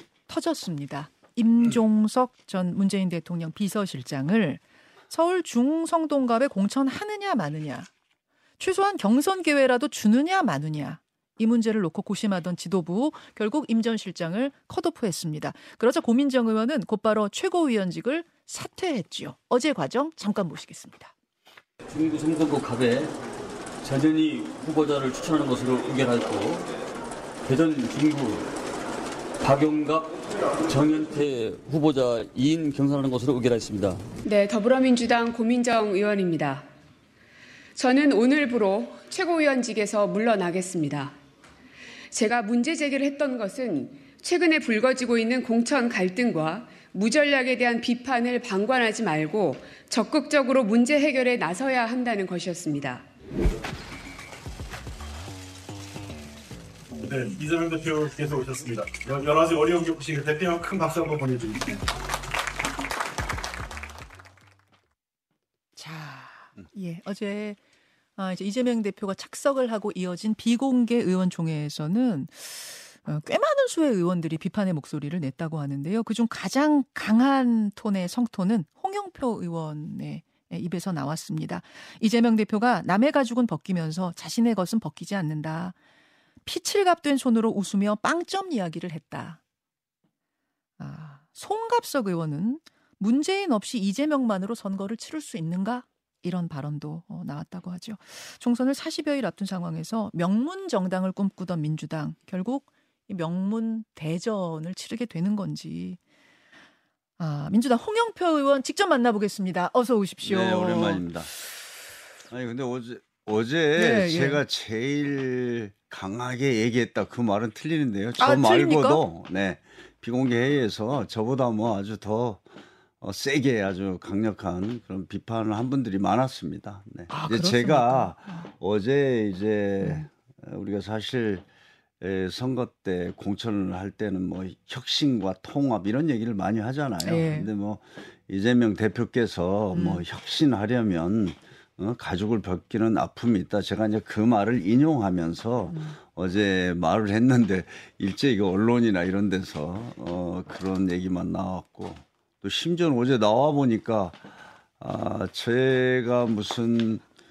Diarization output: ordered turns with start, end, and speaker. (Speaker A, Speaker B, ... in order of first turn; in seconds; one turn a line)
Speaker A: 0.3-7.9
Speaker A: 8.6-21.1
Speaker B: 21.9-23.1
Speaker B: 23.8-26.7
Speaker B: 27.4-28.5
Speaker B: 29.4-34.1
Speaker C: 34.2-36.6
Speaker C: 37.8-41.1
Speaker C: 42.1-53.0
Speaker D: 57.0-61.8
Speaker A: 65.8-67.6
Speaker A: 68.2-85.7
Speaker A: 86.5-89.4
Speaker A: 90.8-106.0
Speaker A: 107.2-111.0
Speaker E: 110.2-111.3
Speaker E: 112.3-122.4
Speaker A: 113.7-114.4
Speaker A: 118.2-119.0
Speaker E: 123.0-131.4
Speaker A: 127.1-128.5
Speaker E: 132.0-154.2
Speaker A: 137.0-137.5
Speaker A: 139.7-140.0
Speaker A: 145.7-146.0
Speaker E: 154.8-157.0